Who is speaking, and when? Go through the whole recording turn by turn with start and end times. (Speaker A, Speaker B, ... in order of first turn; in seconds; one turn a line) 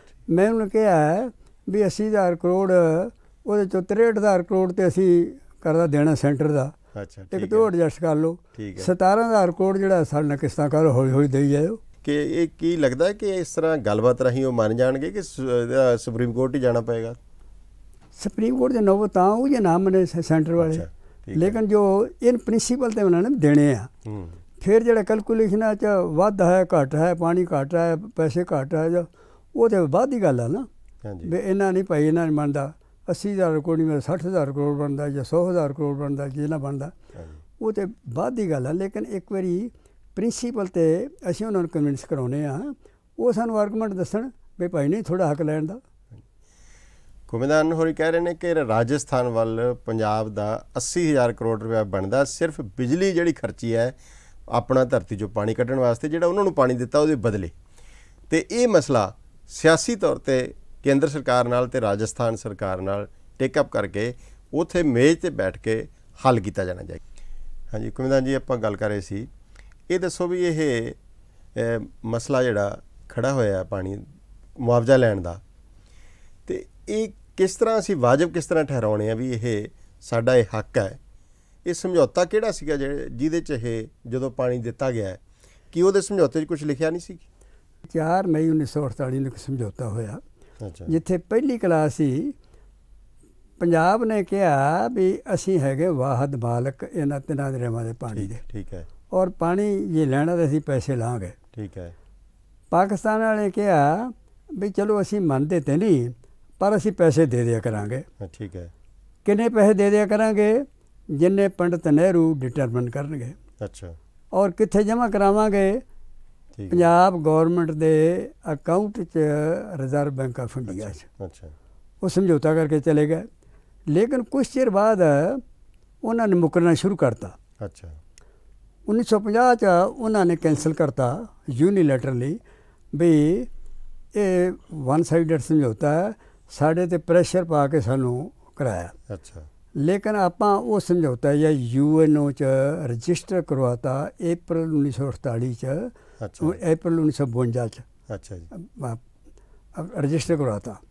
Speaker A: 0.3-6.8
Speaker B: 6.9-7.7
Speaker A: 7.3-11.8
Speaker B: 8.6-8.9
Speaker B: 12.0-17.2
Speaker A: 18.2-23.9
Speaker B: 20.6-21.6
Speaker B: 24.1-24.4
Speaker A: 24.6-30.7
Speaker B: 31.0-31.3
Speaker A: 31.2-36.9
Speaker B: 37.1-37.4
Speaker A: 37.6-45.8
Speaker B: 47.3-54.0
Speaker B: 54.5-57.5
Speaker B: 58.3-67.0
Speaker B: 67.7-69.3
Speaker B: 69.9-71.0
Speaker B: 71.5-74.0
Speaker B: 74.6-75.4
Speaker B: 76.5-81.0
Speaker B: 81.7-85.2
Speaker B: 85.7-87.2
Speaker A: 87.9-90.2
Speaker B: 90.6-90.9
Speaker A: 90.9-92.3
Speaker A: 93.6-98.4
Speaker B: 98.1-98.9
Speaker A: 99.1-101.4
Speaker B: 101.5-101.9
Speaker A: 102.7-108.1
Speaker B: 108.2-108.7
Speaker A: 109.2-113.4
Speaker B: 113.6-114.0
Speaker A: 114.3-115.8
Speaker B: 116.6-116.9
Speaker A: 116.7-121.1
Speaker B: 120.7-121.5
Speaker A: 122.0-123.3
Speaker A: 123.9-125.4
Speaker A: 126.0-127.4
Speaker B: 127.6-128.0
Speaker A: 128.9-132.4
Speaker A: 132.9-133.5
Speaker A: 134.2-138.9
Speaker B: 139.1-139.5
Speaker A: 139.8-147.9
Speaker B: 146.2-146.6
Speaker B: 148.1-148.5
Speaker A: 148.5-149.0
Speaker A: 149.8-150.8